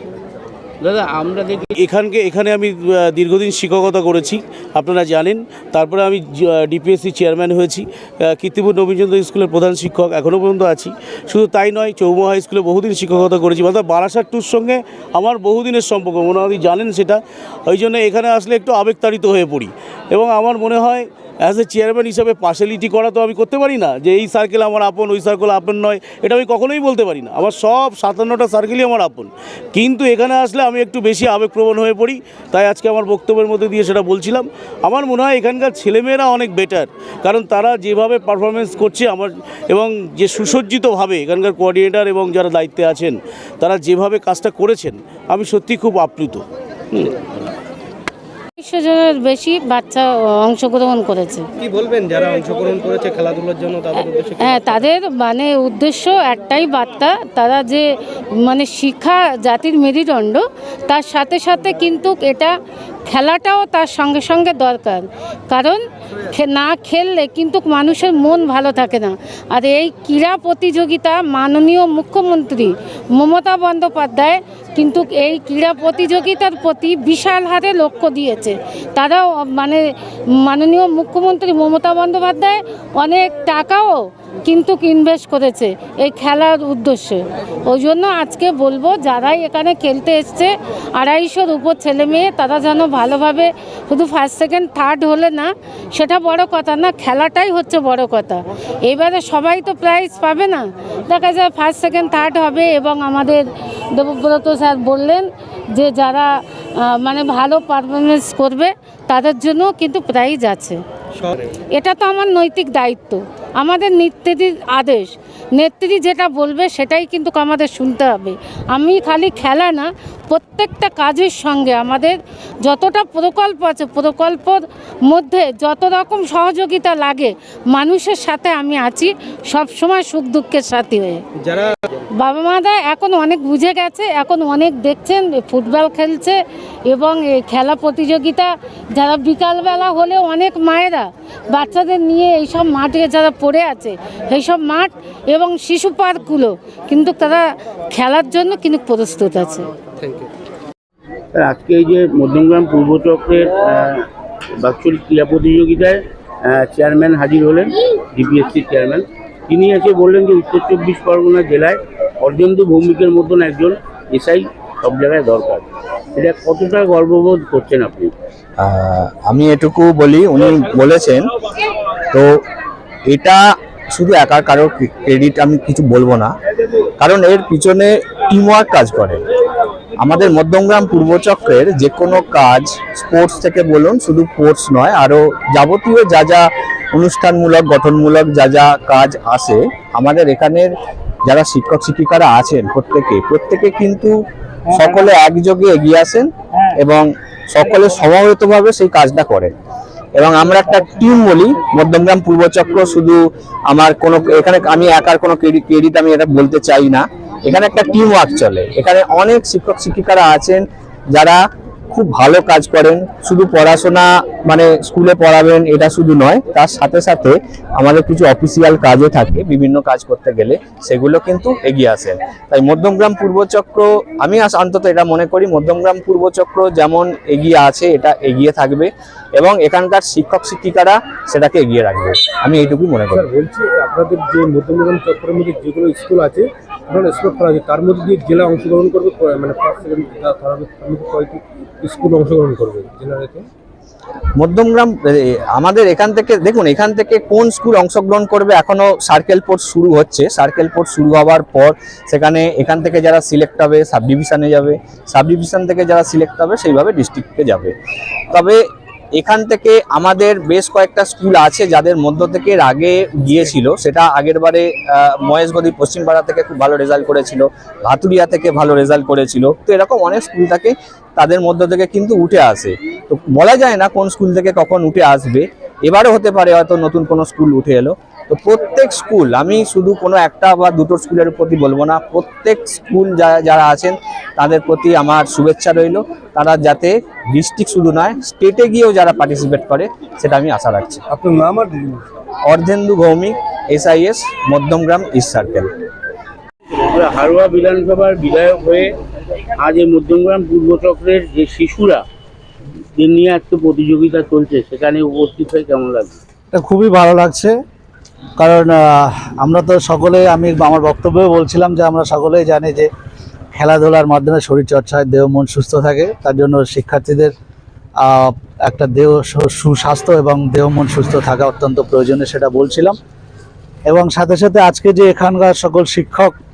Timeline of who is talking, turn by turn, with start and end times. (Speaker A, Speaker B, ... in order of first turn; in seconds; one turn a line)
Speaker A: 0.8-1.7
Speaker B: 1.8-47.1
Speaker C: 48.6-51.5
Speaker D: 51.7-54.5
Speaker C: 54.4-57.9
Speaker C: 58.4-62.5
Speaker C: 63.1-79.8
Speaker C: 80.4-110.8
Speaker C: 111.8-131.2
Speaker C: 132.1-136.4
Speaker C: 136.9-149.7
Speaker A: 151.3-154.0
Speaker A: 154.6-168.1
Speaker E: 168.6-171.3
Speaker E: 173.1-176.3
Speaker E: 177.0-179.2
Speaker E: 180.0-190.7
Speaker E: 191.2-194.1
Speaker E: 194.7-199.5
Speaker E: 200.1-211.4
Speaker E: 211.9-233.2
Speaker F: 233.1-243.4
Speaker E: 244.4-257.7
Speaker E: 258.3-258.6
Speaker E: 259.1-291.0
Speaker F: 291.1-292.1
Speaker E: 292.5-295.7
Speaker A: 296.7-298.9
Speaker A: 299.6-302.0
Speaker A: 303.0-306.2
Speaker G: 306.5-307.5
Speaker G: 308.4-312.9
Speaker G: 313.5-317.3
Speaker G: 318.0-323.0
Speaker G: 323.9-326.3